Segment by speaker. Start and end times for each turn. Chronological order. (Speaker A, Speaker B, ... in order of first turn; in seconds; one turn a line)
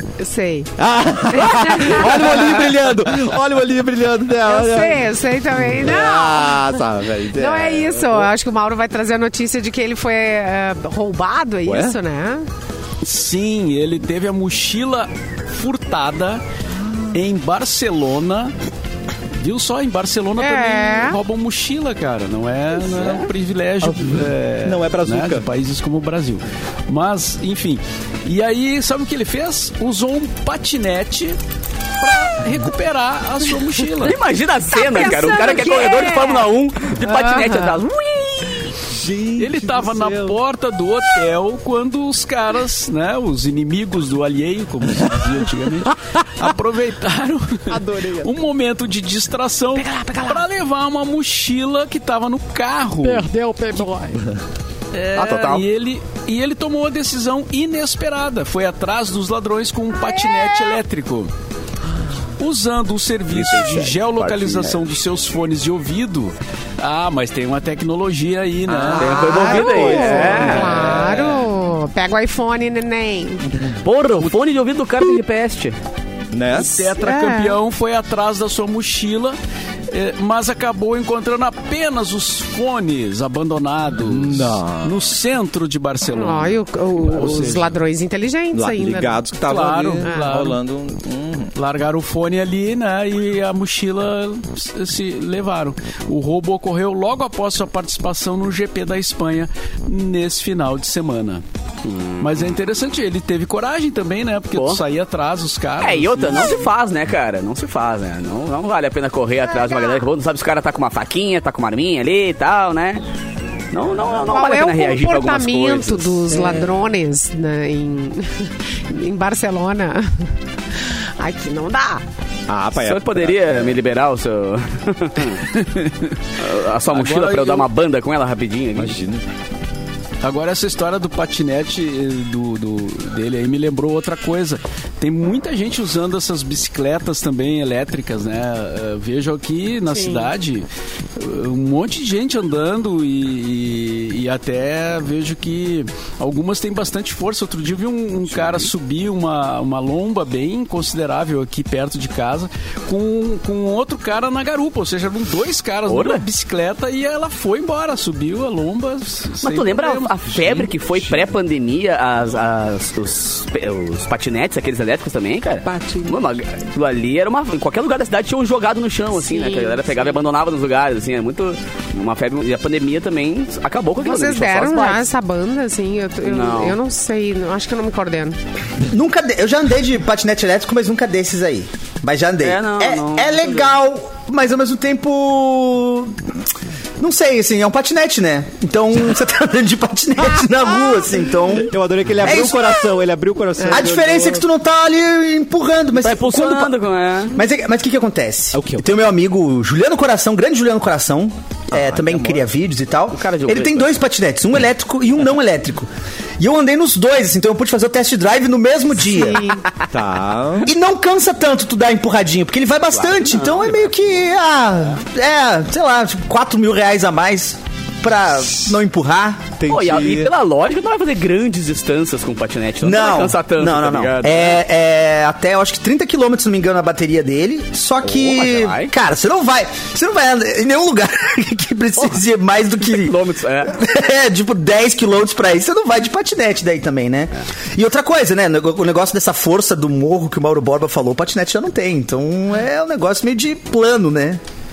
Speaker A: 0.2-0.7
Speaker B: 0.8-8.3
Speaker A: 1.3-2.2
Speaker A: 4.4-6.8
Speaker A: 7.3-12.5
Speaker B: 11.7-12.0
Speaker C: 13.0-16.4
Speaker B: 16.8-17.1
Speaker C: 17.1-18.5
Speaker C: 19.4-31.4
Speaker A: 20.4-21.2
Speaker B: 23.8-25.5
Speaker C: 32.0-34.2
Speaker D: 34.0-38.7
Speaker A: 34.7-36.5
Speaker A: 37.0-37.8
Speaker B: 38.9-40.4
Speaker C: 39.4-53.9
Speaker B: 47.8-48.2
Speaker A: 49.8-50.5
Speaker A: 53.1-54.2
Speaker C: 54.9-61.3
Speaker D: 55.2-55.6
Speaker C: 62.4-71.1
Speaker D: 63.3-64.8
Speaker B: 68.7-71.5
Speaker D: 69.0-70.8
Speaker A: 69.1-73.5
Speaker D: 73.8-75.8
Speaker B: 76.3-76.8
Speaker C: 76.5-79.4
Speaker A: 76.6-77.6
Speaker C: 79.9-87.8
Speaker B: 84.0-85.0
Speaker A: 86.1-89.2
Speaker B: 88.5-91.5
Speaker C: 89.5-90.6
Speaker A: 90.0-90.3
Speaker C: 91.5-101.4
Speaker D: 101.8-102.5
Speaker C: 102.2-106.7
Speaker D: 104.5-104.8
Speaker D: 105.8-113.0
Speaker A: 109.6-110.0
Speaker D: 113.7-116.3
Speaker A: 114.3-120.1
Speaker B: 116.3-116.7
Speaker A: 121.2-122.0
Speaker B: 122.5-123.8
Speaker D: 122.8-125.8
Speaker D: 126.4-129.0
Speaker C: 126.9-127.7
Speaker B: 128.8-129.2
Speaker C: 130.2-160.2
Speaker A: 139.9-140.3
Speaker B: 148.4-148.7
Speaker D: 155.9-156.2
Speaker D: 159.4-175.1
Speaker B: 160.3-161.3
Speaker B: 165.6-166.3
Speaker A: 169.3-169.8
Speaker A: 174.0-178.4
Speaker D: 176.2-176.8
Speaker E: 178.9-186.2
Speaker D: 182.4-183.7
Speaker E: 187.0-192.8
Speaker B: 191.6-194.4
Speaker E: 193.7-196.7
Speaker D: 196.0-197.4
Speaker E: 197.3-209.5
Speaker B: 198.5-199.0
Speaker B: 201.7-202.5
Speaker D: 203.1-203.9
Speaker A: 209.0-209.6
Speaker B: 209.9-210.7
Speaker E: 210.7-219.5
Speaker D: 212.9-213.8
Speaker B: 219.6-220.3
Speaker D: 219.7-224.6
Speaker E: 222.8-244.4
Speaker D: 228.0-228.9
Speaker D: 232.8-233.8